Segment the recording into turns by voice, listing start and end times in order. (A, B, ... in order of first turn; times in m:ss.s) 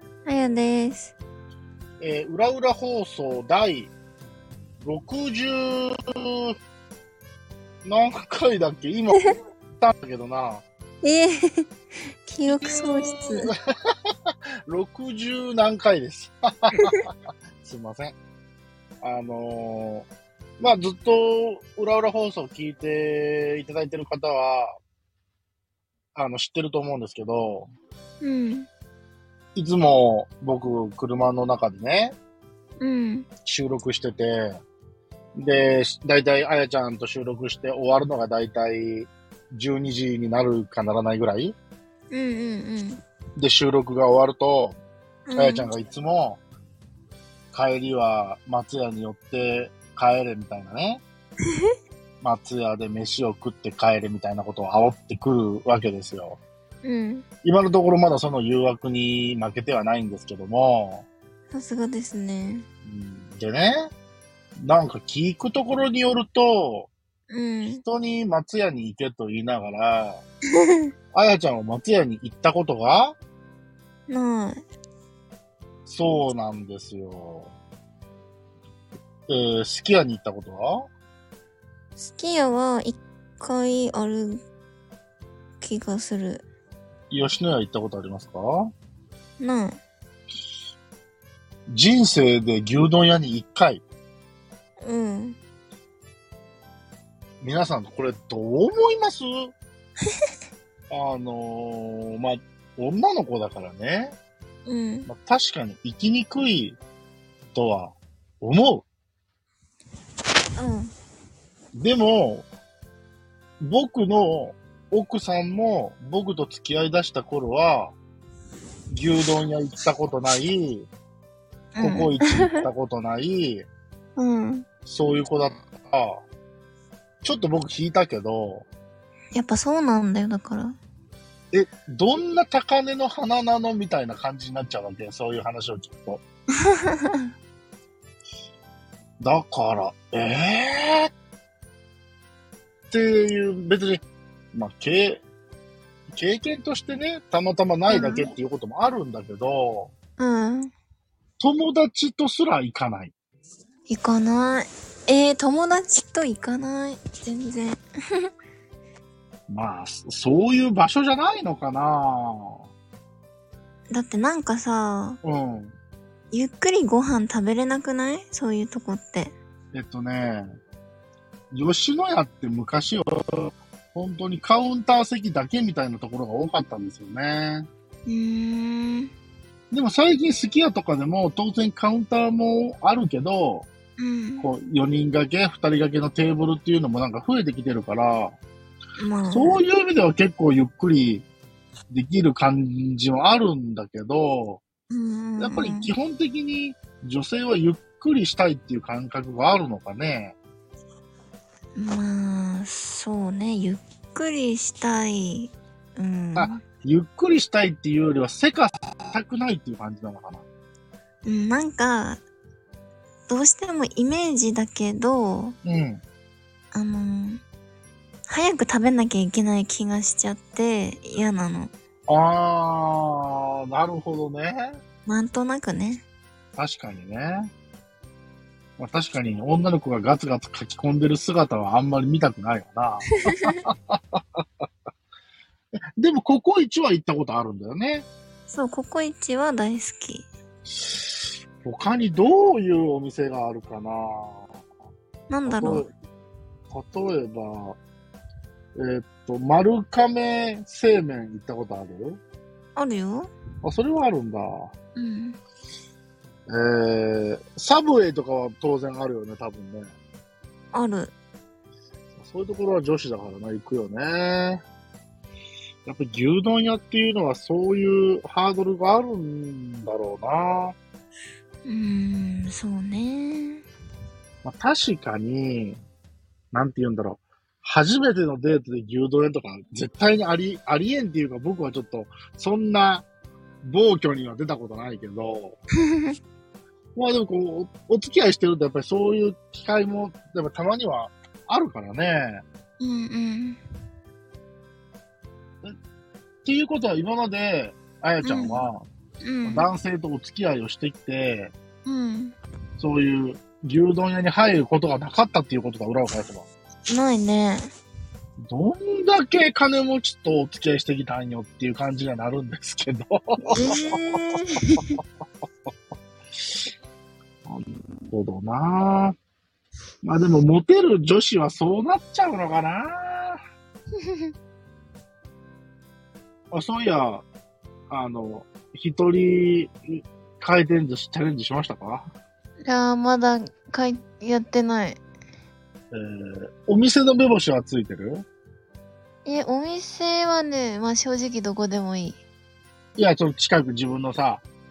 0:00.2-0:01.1 A
0:02.0-0:03.9 B
0:04.8-0:06.5 B
0:07.8-0:10.6 B
0:11.0-0:11.7 A
0:12.2-0:13.5 A
0:12.4-0:13.5 B
0:14.7-0:18.2 B
0:19.0-0:20.1 B
0:20.6-0:24.8 B
0:26.1-0:27.7 B
0:28.2-0:28.7 A
0:29.5-0:32.2 B
0:32.8-0:33.3 A
0:33.4-0:34.6 B
0:35.4-0:41.6 B
0:42.1-0:43.0 A
0:43.4-0:44.8 B
0:45.3-0:45.7 A
0:45.4-0:46.4 B
0:47.5-0:51.0 B
0:52.2-0:56.4 B
0:56.8-0:57.2 A
0:57.4-1:01.1 B
1:01.5-1:02.7 A
1:02.8-1:03.9 B
1:04.6-1:06.9 B
1:07.3-1:07.8 A
1:07.6-1:10.2 B
1:10.6-1:10.9 A
1:11.1-1:13.2 B
1:14.1-1:14.6 A
1:15.8-1:17.5 B
1:19.3-1:20.9 B
1:22.0-1:24.4 A
1:25.6-1:26.4 A
1:27.1-1:28.7 B
1:29.4-1:29.8 A
1:31.7-1:33.8 B
1:34.8-1:35.4 A
1:37.4-1:39.5 B
1:40.9-1:44.2 B
1:44.6-1:45.1 A
1:45.0-1:46.8 B
1:47.5-1:48.8 B
1:50.6-1:50.9 A
1:51.8-1:52.5 B
1:53.6-1:57.9 B
1:58.9-2:00.9 B
2:01.7-2:02.3 A
2:01.8-2:03.7 B
2:04.2-2:04.6 A
2:04.8-2:06.2 B
2:07.2-2:08.7 B
2:09.3-2:10.8 A
2:11.5-2:16.2 B
2:16.6-2:17.3 A
2:19.2-2:21.1 B
2:22.9-2:25.2 B
2:26.1-2:29.9 B
2:27.9-2:28.3 A
2:30.2-2:30.7 A
2:31.4-2:33.1 B
2:33.9-2:38.3 A
2:39.5-2:42.6 B
2:43.9-2:45.2 A
2:45.2-2:45.8 B
2:46.3-2:49.3 A
2:49.7-2:50.5 B
2:51.5-2:57.7 B
2:58.1-2:59.1 A
2:59.7-3:03.7 B
3:04.0-3:04.5 A
3:04.4-3:08.4 B
3:09.0-3:09.6 A
3:09.3-3:11.2 B
3:11.9-3:14.6 B
3:14.9-3:15.9 A
3:15.4-3:20.4 B
3:21.8-3:26.6 A
3:26.4-3:30.4 B
3:31.2-3:32.2 A
3:33.3-3:35.6 A
3:35.6-3:36.0 B
3:36.7-3:37.4 A
3:38.3-3:41.7 A
3:42.1-3:44.8 B
3:45.1-3:46.0 A
3:46.6-3:47.5 B
3:48.8-3:54.2 B
3:53.3-3:53.6 A
3:56.0-3:58.1 B
3:58.5-4:00.3 A
4:00.7-4:01.1 B
4:01.6-4:04.5 B
4:05.3-4:05.9 A
4:05.4-4:05.9 B
4:06.7-4:07.8 B
4:08.8-4:12.2 B
4:12.8-4:13.3 A
4:13.6-4:14.7 B
4:15.0-4:15.4 A
4:16.5-4:19.9 B
4:20.7-4:21.1 A
4:22.1-4:24.6 B
4:25.8-4:30.8 B
4:31.6-4:33.6 A
4:34.4-4:35.8 B
4:36.5-4:43.0 B
4:43.6-4:45.6 B
4:45.8-4:46.2 A
4:47.0-4:52.4 B
4:52.8-4:53.6 A
4:56.4-4:58.8 B
4:58.2-4:58.6 A
4:59.2-4:59.7 A
4:59.4-5:01.5 B
5:01.8-5:02.4 A
5:02.8-5:06.5 B
5:06.9-5:07.7 A
5:08.4-5:13.8 B
5:13.5-5:15.0 A
5:17.4-5:19.2 B
5:20.0-5:23.4 B
5:24.0-5:24.3 A
5:26.5-5:27.2 B
5:27.9-5:32.1 B
5:32.6-5:35.0 A
5:35.9-5:38.3 B
5:39.2-5:42.2 A
5:43.0-5:44.4 B